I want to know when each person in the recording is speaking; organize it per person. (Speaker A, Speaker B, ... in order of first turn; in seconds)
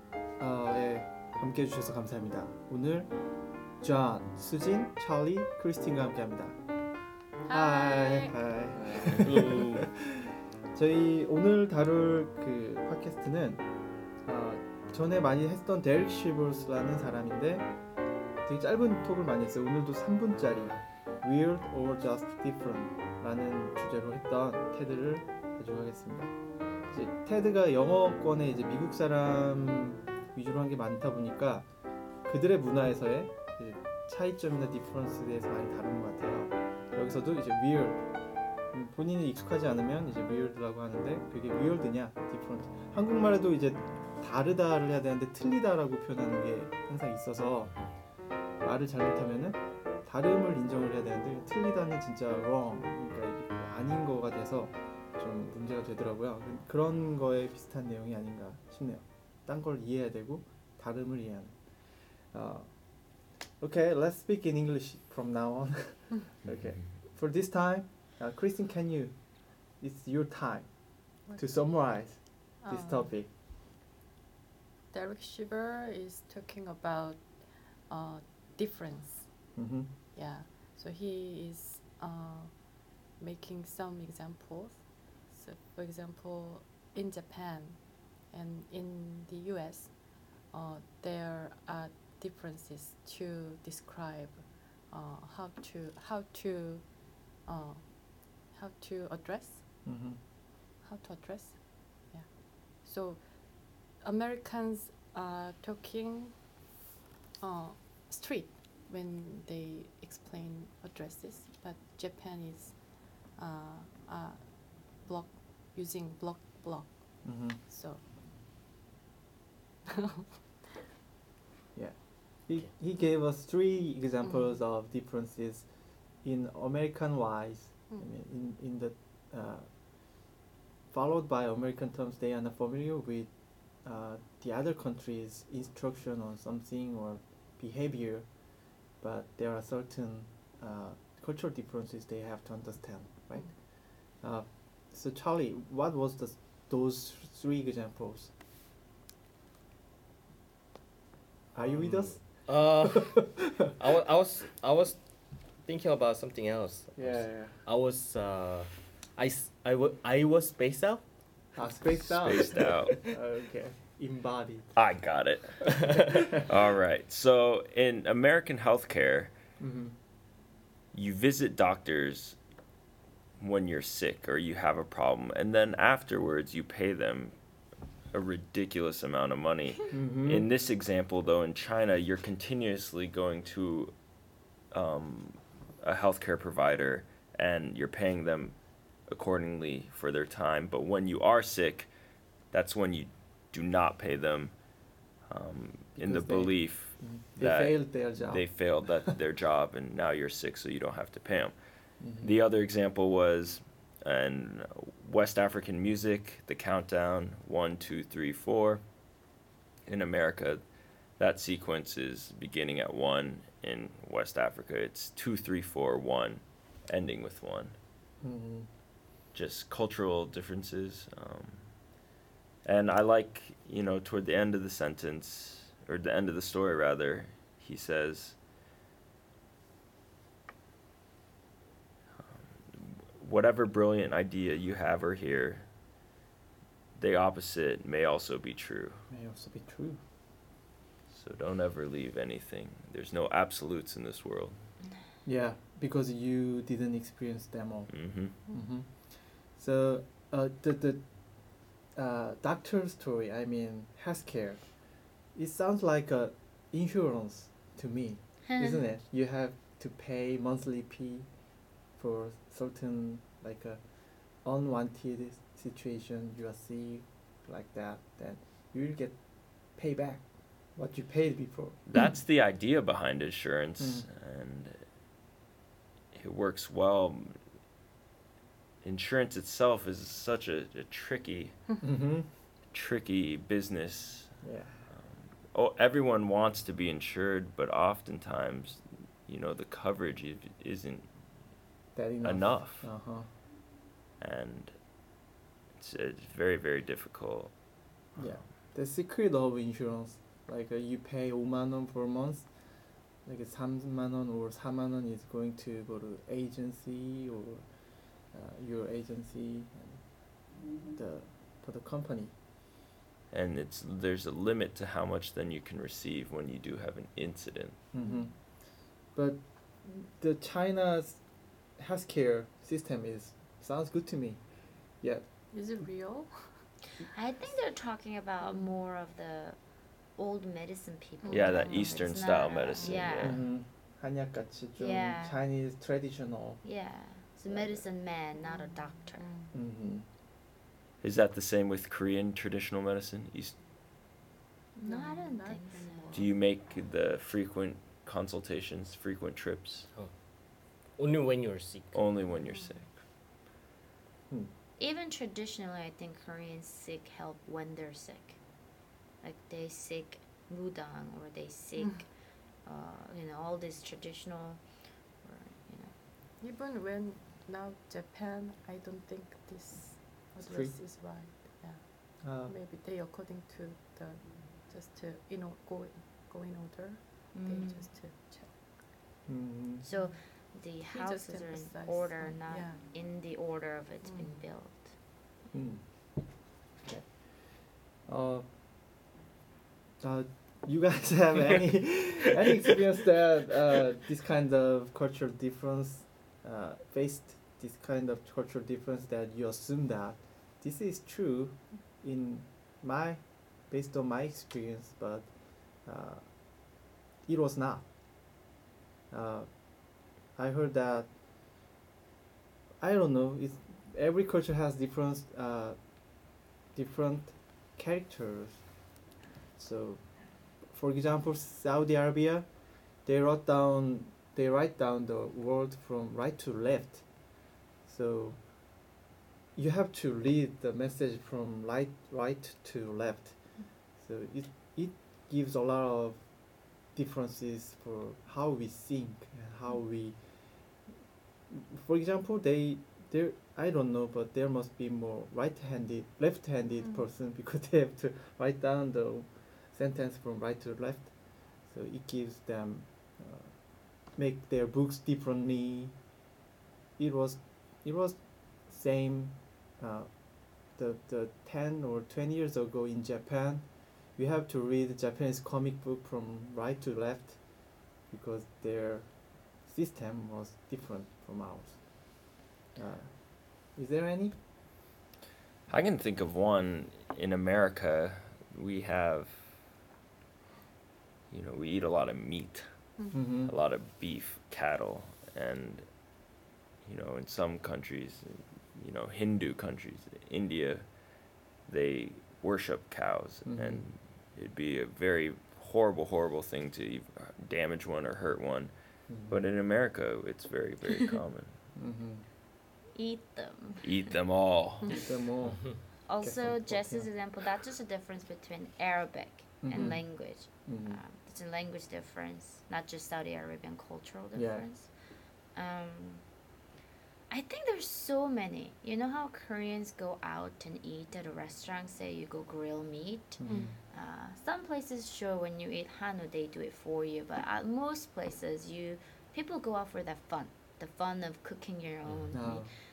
Speaker A: 0.4-3.1, 3.8-6.6, 7.5-13.6, 14.2-17.7, 18.4-26.3, 26.9-31.7, 32.2-38.0, 38.7-47.8, 48.6-73.3, 79.5-79.9, 99.8-100.2, 117.2-117.6, 121.7-125.7, 126.2-129.7, 130.9-133.3, 133.8-138.3, 139.0-148.3, 151.5-152.2, 157.0-157.6, 161.6-164.7, 169.6-169.9, 179.9-180.5, 196.0-199.2, 202.0-202.3, 218.2-218.7, 239.1-240.0, 245.2-254.8, 255.3-261.3, 261.9-271.8, 273.8-274.1, 281.8-282.3, 284.4-284.8, 291.9-293.3, 298.2-302.5, 303.2-307.7, 308.2-312.3, 317.9-321.2, 321.7-325.2, 333.2-336.6, 337.5-337.8, 339.5-340.1, 370.4-370.7, 372.2-372.6, 379.2-379.8, 385.5-385.9, 386.8-388.5, 390.0-407.9, 409.1-411.1, 412.8-418.7, 419.6-428.5, 429.5-440.8, 441.5-456.0, 457.0-474.4, 483.1-483.5, 493.4-493.8, 499.1-499.4, 501.7-502.2, 504.9-507.1, 509.6-511.0, 514.3-514.6, 523.4-523.8, 532.3-532.7
Speaker B: 7.4-8.4, 71.2-73.1, 74.9-79.5, 80.1-99.6, 100.8-106.5, 107.4-118.0, 119.9-120.2, 318.0-318.3, 325.5-326.6, 328.4-328.7, 331.2-332.2, 332.8-333.0, 338.4-339.5, 344.8-346.3, 366.4-378.6, 380.9-382.8, 384.0-384.3, 483.0-483.4, 523.5-523.7
Speaker C: 8.8-9.9, 151.7-155.0, 155.6-161.0, 162.6-163.1, 165.7-166.0, 350.9-352.0, 532.0-532.3
Speaker D: 162.1-163.0, 164.7-169.3, 170.9-172.4, 173.4-177.3, 178.1-183.9, 184.7-188.6, 189.1-191.9, 192.5-194.5, 195.2-201.5, 202.2-208.8, 209.9-210.6, 211.2-217.8, 219.3-221.7, 222.6-228.4, 232.2-235.7, 236.9-239.0, 241.1-244.6, 247.9-248.4, 271.9-274.8, 276.1-277.4, 278.8-281.6, 282.7-291.1, 292.2-292.9, 294.2-294.8, 295.7-297.5, 298.1-298.4, 313.3-317.9, 331.3-333.4, 341.0-343.5, 346.1-349.9, 351.9-353.0, 475.7-479.6, 481.3-485.9, 486.8-491.1, 491.6-498.7, 499.3-501.6, 503.8-505.0
Speaker E: 258.5-258.8, 327.1-329.6, 330.1-333.4, 334.8-335.4, 336.6-339.2, 344.8-346.3, 354.8-358.4, 359.2-362.1, 362.6-365.9, 377.3-377.9, 379.8-384.9, 502.9-504.1, 506.0-514.9, 515.5-516.2, 517.3-532.7